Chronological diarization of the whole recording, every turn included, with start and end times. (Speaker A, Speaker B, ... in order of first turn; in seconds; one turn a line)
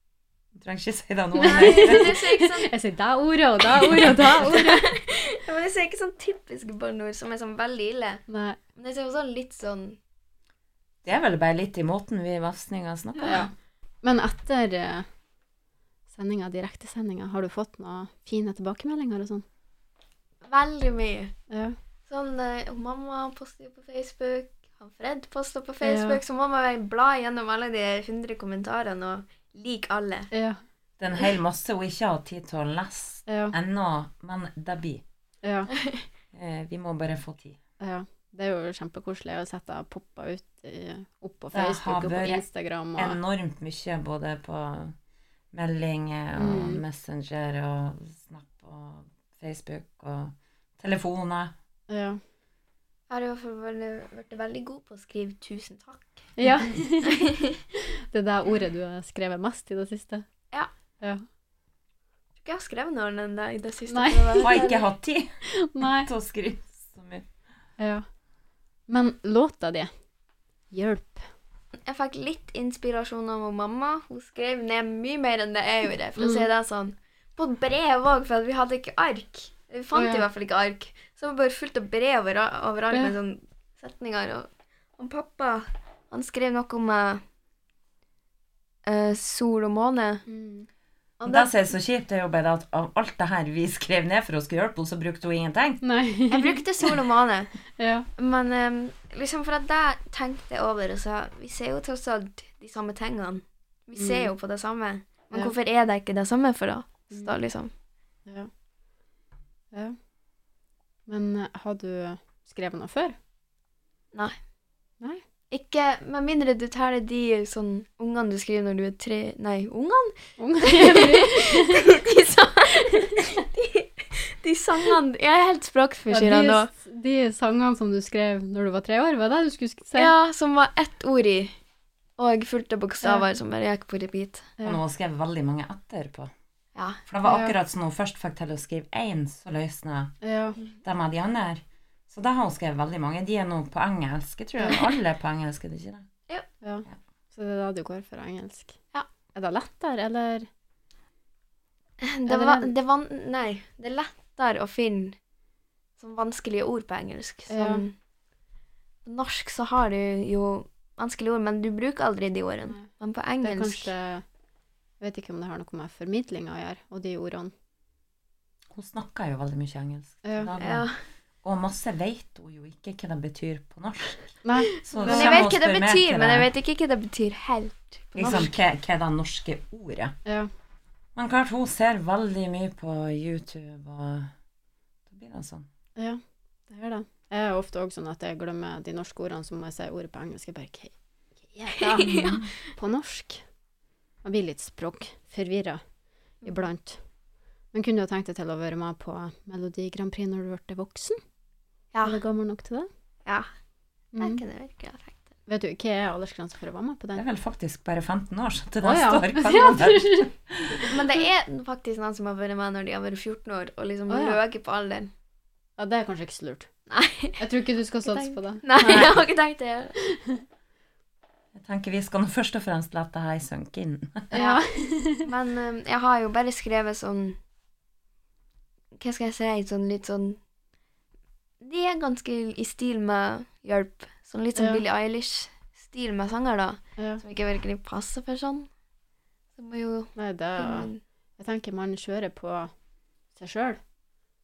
Speaker A: 0.5-2.2
Speaker B: 1.4-4.9
Speaker C: 1.4-2.7
Speaker C: 3.8-8.2
Speaker B: 8.3-8.6
Speaker C: 8.8-10.0
Speaker A: 11.0-13.4
Speaker C: 13.2-13.4
Speaker B: 13.2-15.1
Speaker B: 16.1-19.4
Speaker C: 20.4-21.4
Speaker B: 21.5-21.8
Speaker C: 22.1-30.3
Speaker B: 25.8-26.2
Speaker B: 30.3-30.6
Speaker A: 31.0-35.0
Speaker B: 33.3-33.5
Speaker B: 35.4-35.7
Speaker C: 35.7-36.0
Speaker A: 36.3-37.6
Speaker B: 37.8-43.2
Speaker A: 41.5-42.4
Speaker A: 43.0-44.9
Speaker A: 45.5-51.5
Speaker B: 46.4-46.8
Speaker B: 51.9-52.2
Speaker C: 53.1-56.3
Speaker B: 56.4-60.2
Speaker C: 57.1-57.5
Speaker C: 62.4-64.9
Speaker B: 63.9-64.6
Speaker A: 64.4-67.2
Speaker B: 65.4-66.1
Speaker B: 67.8-68.0
Speaker B: 68.9-69.9
Speaker B: 70.7-71.3
Speaker C: 71.8-87.2
Speaker B: 76.2-76.5
Speaker B: 79.9-80.2
Speaker C: 88.9-90.2
Speaker B: 90.3-90.7
Speaker C: 91.2-91.5
Speaker A: 91.3-95.8
Speaker B: 95.8-96.6
Speaker C: 96.3-97.5
Speaker B: 97.8-98.1
Speaker C: 98.2-107.7
Speaker B: 104.0-104.3
Speaker B: 111.1-113.2
Speaker C: 115.5-126.7
Speaker B: 120.4-121.9
Speaker B: 126.1-130.1
Speaker C: 129.9-131.5
Speaker C: 132.2-134.5
Speaker A: 134.6-136.3
Speaker C: 136.7-137.0
Speaker A: 137.1-140.1
Speaker B: 137.2-137.5
Speaker B: 140.2-140.6
Speaker A: 140.8-146.1
Speaker B: 146.6-148.8
Speaker B: 149.3-150.5
Speaker C: 152.0-155.2
Speaker B: 152.3-152.7
Speaker C: 156.0-157.9
Speaker B: 157.5-157.8
Speaker C: 159.0-163.9
Speaker B: 163.4-164.2
Speaker B: 165.0-167.5
Speaker A: 168.7-170.9
Speaker B: 170.2-170.5
Speaker C: 170.6-171.0
Speaker A: 171.4-176.5
Speaker B: 174.4-175.5
Speaker C: 174.8-178.5
Speaker A: 178.1-180.1
Speaker B: 178.2-178.5
Speaker B: 180.2-180.5
Speaker A: 181.2-184.3
Speaker A: 185.1-185.7
Speaker B: 186.0-190.9
Speaker B: 191.4-193.4
Speaker C: 191.8-192.4
Speaker A: 192.2-192.5
Speaker B: 194.2-195.8
Speaker C: 196.4-196.7
Speaker B: 196.4-197.0
Speaker B: 197.7-201.2
Speaker C: 201.9-202.2
Speaker B: 202.0-202.9
Speaker B: 204.1-204.4
Speaker C: 204.2-205.2
Speaker B: 205.5-207.2
Speaker A: 207.1-210.9
Speaker B: 208.8-210.8
Speaker C: 210.8-215.1
Speaker B: 214.1-214.4
Speaker B: 215.8-216.7
Speaker C: 216.9-217.4
Speaker B: 217.4-219.1
Speaker C: 218.0-219.9
Speaker A: 218.8-219.1
Speaker B: 220.1-220.4
Speaker A: 221.5-224.3
Speaker B: 224.3-225.2
Speaker C: 224.3-227.4
Speaker C: 229.0-230.4
Speaker C: 231.6-238.7
Speaker B: 234.5-234.8
Speaker C: 239.6-241.0
Speaker B: 240.2-242.7
Speaker B: 243.3-243.8